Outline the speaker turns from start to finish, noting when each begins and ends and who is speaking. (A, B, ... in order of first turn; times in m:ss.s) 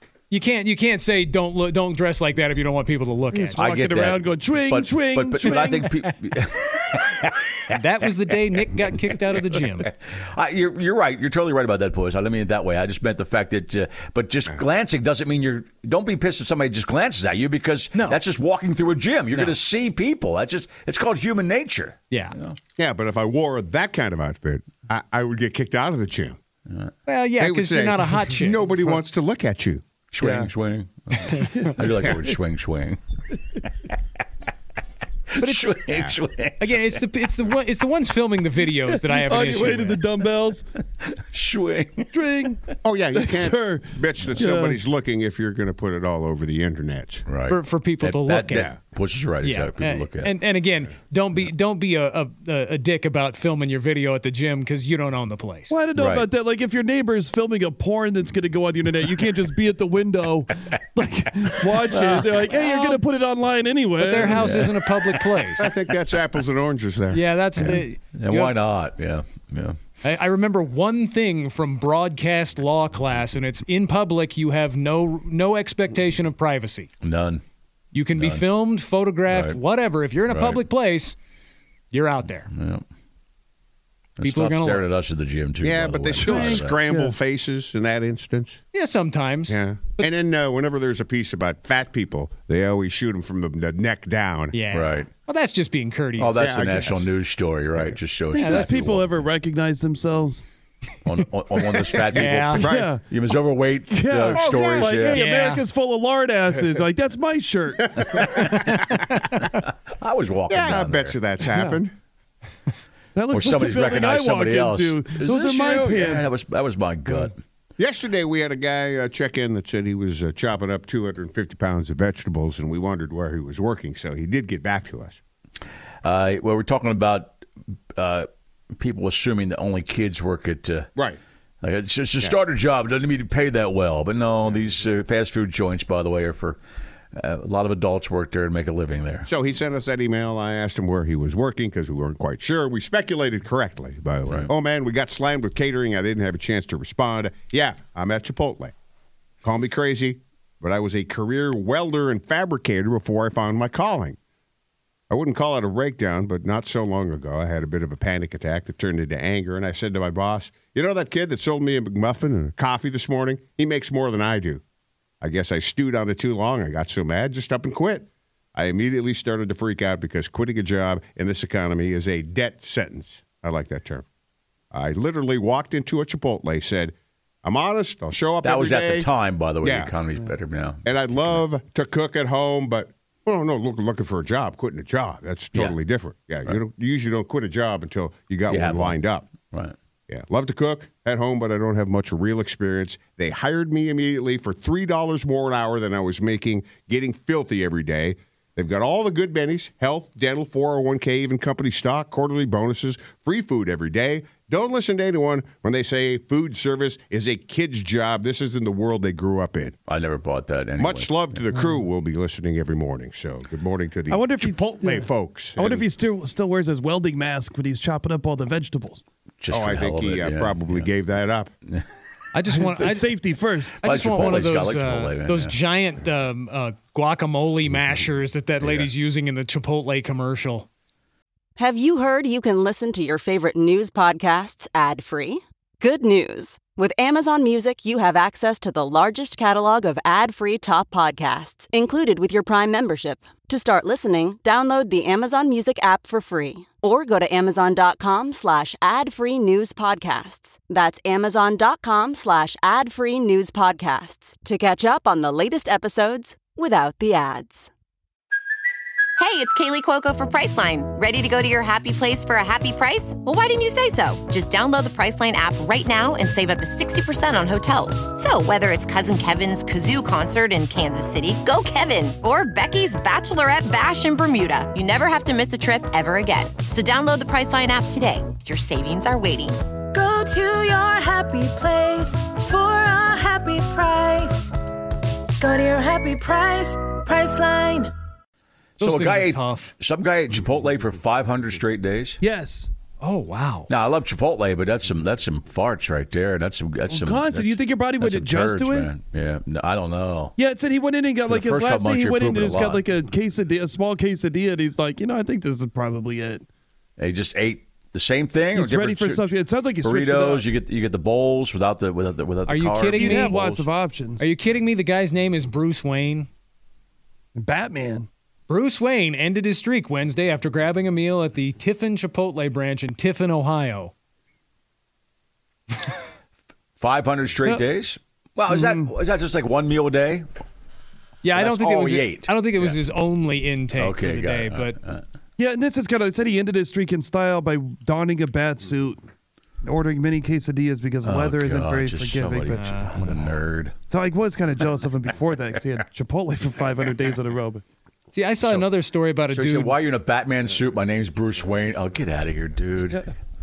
0:00.3-0:03.6 A
0:03.3-0:06.1 B
0:03.6-0:07.7 C
0:07.7-0:09.9 A
0:09.9-0:22.6 C
0:18.0-0:18.2 A
0:22.1-0:22.4 A
0:22.8-0:26.4 D
0:27.1-0:28.7 A
0:27.4-0:29.8 D
0:30.1-0:33.0 C
0:30.2-0:30.5 B
0:31.3-0:31.8 B
0:35.3-0:37.0 C
0:35.4-0:35.9 A
0:36.6-0:40.0 A
0:38.8-0:40.7 B
0:41.0-0:42.1 C
0:42.1-0:44.8 B
0:42.8-0:47.2 D
0:47.3-0:50.3 C
0:47.5-0:48.7 A
0:49.4-0:55.7 A
0:55.7-1:04.8 B
0:56.0-0:56.2 C
1:01.9-1:03.0 A
1:04.0-1:05.7 A
1:04.3-1:04.7 C
1:05.6-1:07.2 D
1:07.1-1:08.6 A
1:07.6-1:09.8 C
1:10.0-1:16.9 A
1:17.0-1:17.4 C
1:17.9-1:21.2 A
1:18.2-1:18.4 C
1:19.3-1:19.6 C
1:20.3-1:20.6 C
1:21.9-1:22.5 A
1:22.5-1:22.8 C
1:24.2-1:26.8 C
1:24.2-1:24.9 A
1:25.6-1:28.6 D
1:26.2-1:27.2 B
1:28.7-1:30.1 A
1:29.5-1:34.6 D
1:34.5-1:36.5 A
1:34.7-1:35.1 C
1:36.2-1:39.2 C
1:36.4-1:37.1 D
1:38.3-1:40.4 B
1:38.4-1:38.7 A
1:41.0-1:45.3 C
1:42.1-1:42.9 D
1:42.1-1:42.7 A
1:42.6-1:43.2 B
1:43.9-1:48.3 B
1:44.3-1:45.0 D
1:45.1-1:45.6 A
1:48.2-1:48.8 C
1:48.4-1:49.2 A
1:49.5-1:51.3 C
1:50.5-1:51.9 D
1:51.5-1:51.8 B
1:53.2-1:56.3 B
1:53.3-1:57.4 C
1:57.8-2:05.2 D
2:06.0-2:10.9 C
2:11.6-2:16.6 C
2:17.2-2:19.3 C
2:19.3-2:28.7 D
2:29.4-2:34.2 D
2:35.1-2:44.6 D
2:45.2-2:54.0 D
2:54.7-2:59.1 D
2:58.4-3:01.4 C
2:59.6-3:00.0 D
3:00.8-3:09.3 D
3:08.5-3:09.8 C
3:10.1-3:29.8 D
3:29.9-3:31.4 C
3:30.8-3:35.8 D
3:34.1-3:39.0 B
3:39.4-3:40.9 C
3:39.5-3:41.5 D
3:42.3-3:43.1 A
3:42.5-3:44.4 B
3:43.8-3:50.7 A
3:43.8-3:45.6 C
3:48.6-3:48.9 C
3:51.6-4:17.7 E
4:19.2-4:39.6 F
4:39.9-4:44.5 G
4:45.4-4:47.9 G
4:48.8-4:52.2 C
4:48.8-4:49.7 A
4:52.2-4:52.7 B
4:53.0-4:53.7 A
4:53.7-5:00.3 C
4:56.9-4:58.9 B
5:00.4-5:06.4 B
5:01.3-5:02.8 C
5:07.0-5:09.3 C
5:08.5-5:10.5 B
5:09.8-5:13.7 C
5:12.5-5:13.4 A
5:12.9-5:14.2 B
5:14.2-5:16.3 A
5:17.4-5:18.1 B
5:18.5-5:23.9 A
5:26.8-5:30.3 C
5:28.5-5:28.9 B
5:31.2-5:34.8 A
5:31.3-5:32.8 C
5:33.8-5:35.0 C
5:35.4-5:39.0 B
5:39.6-5:43.1 B
5:41.0-5:43.7 C
5:42.5-5:43.0 A
5:43.9-5:47.6 B
5:48.1-5:49.8 A
5:49.3-5:53.1 C